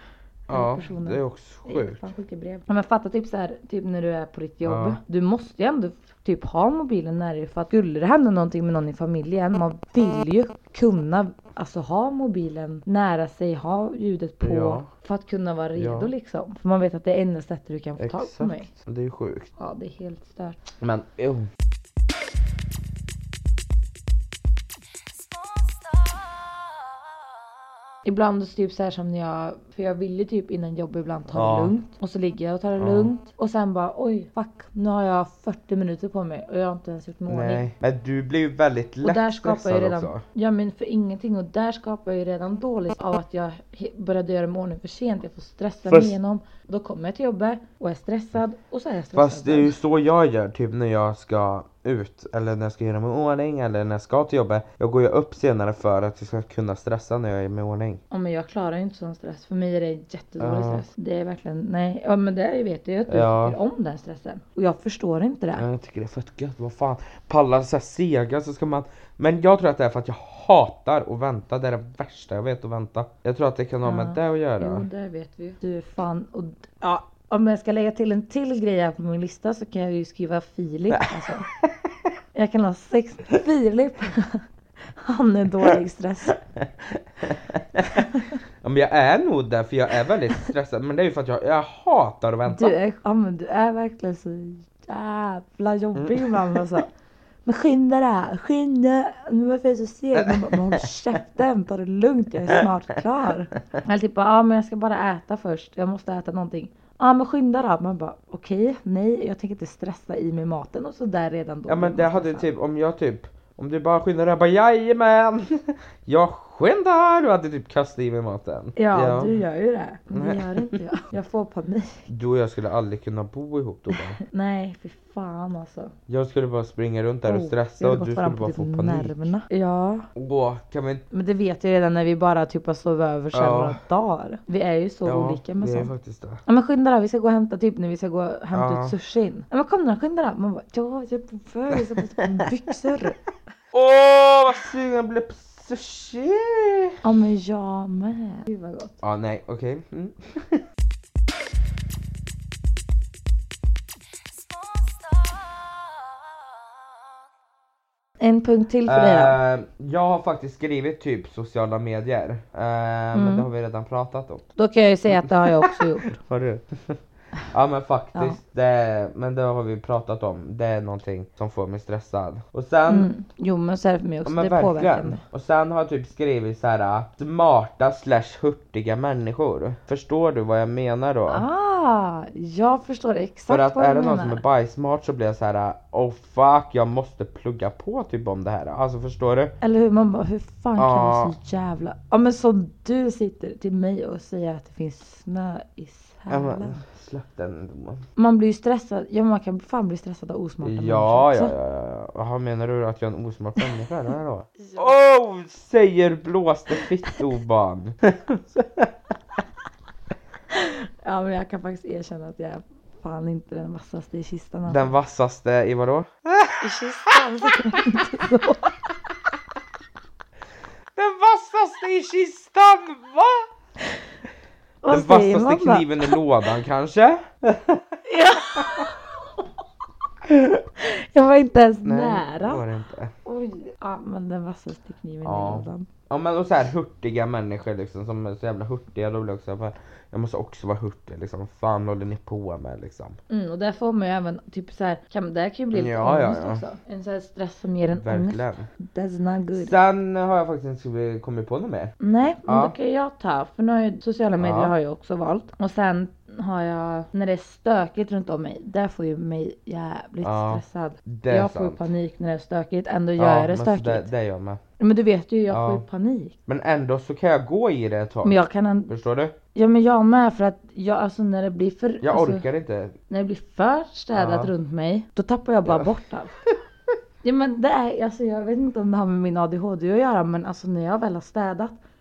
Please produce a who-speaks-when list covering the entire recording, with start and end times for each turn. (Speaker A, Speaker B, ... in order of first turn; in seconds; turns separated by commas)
Speaker A: 0.5-2.0, Speaker B: 0.5-18.7, Speaker A: 4.6-5.0, Speaker A: 14.4-14.9, Speaker A: 15.8-16.1, Speaker A: 18.0-19.5, Speaker B: 19.6-20.6, Speaker A: 20.8-21.5, Speaker B: 28.1-37.6, Speaker A: 31.3-31.7, Speaker A: 32.8-33.1, Speaker A: 37.3-40.2, Speaker B: 39.0-49.7, Speaker A: 45.9-46.2, Speaker A: 49.1-58.0, Speaker B: 58.1-65.7, Speaker A: 60.4-60.8, Speaker A: 63.1-63.6, Speaker A: 65.6-74.9, Speaker B: 73.8-81.5, Speaker A: 80.9-81.9, Speaker B: 82.3-86.4, Speaker A: 86.5-92.8, Speaker B: 88.0-88.4, Speaker B: 92.5-96.9, Speaker A: 96.0-96.8, Speaker B: 97.4-112.5, Speaker A: 100.1-100.9, Speaker A: 111.7-119.4, Speaker B: 118.8-122.0, Speaker A: 120.1-120.8, Speaker A: 122.1-124.2, Speaker B: 123.9-125.9, Speaker A: 126.1-129.3, Speaker B: 127.2-130.1, Speaker A: 130.2-131.0, Speaker B: 131.1-135.9, Speaker A: 133.3-133.8, Speaker A: 135.1-136.4, Speaker B: 136.4-143.2, Speaker A: 138.5-138.9, Speaker A: 141.7-142.2, Speaker A: 143.7-147.0, Speaker B: 147.0-149.0, Speaker A: 149.0-150.6, Speaker B: 158.2-159.4, Speaker A: 158.8-164.4, Speaker B: 163.1-163.4, Speaker B: 164.6-166.2, Speaker A: 165.1-167.0, Speaker A: 167.5-173.1, Speaker B: 172.9-175.2, Speaker A: 174.2-181.4, Speaker B: 181.3-184.4, Speaker A: 183.5-189.5, Speaker B: 189.6-196.8, Speaker A: 190.8-191.3, Speaker A: 196.3-198.1, Speaker B: 198.2-201.5, Speaker A: 200.6-208.9, Speaker B: 204.6-204.9, Speaker B: 210.5-214.9, Speaker A: 214.7-218.3, Speaker B: 216.6-218.7, Speaker A: 220.9-223.4, Speaker B: 224.8-226.2, Speaker A: 224.9-228.0, Speaker B: 228.1-229.0, Speaker A: 228.6-228.9, Speaker B: 230.8-232.6, Speaker A: 231.8-233.1, Speaker B: 233.2-235.9, Speaker A: 235.2-243.2, Speaker B: 243.3-249.8, Speaker A: 245.7-246.6, Speaker A: 247.9-248.7, Speaker A: 249.5-252.7, Speaker B: 252.0-264.1, Speaker A: 254.4-254.7, Speaker A: 260.2-261.8, Speaker A: 263.2-264.6, Speaker B: 264.8-266.4, Speaker A: 265.5-265.8, Speaker A: 266.5-269.4, Speaker B: 268.2-268.9, Speaker B: 269.5-272.4, Speaker A: 272.0-272.9, Speaker B: 273.1-276.3, Speaker A: 274.1-274.5, Speaker A: 275.6-275.9, Speaker B: 277.2-281.8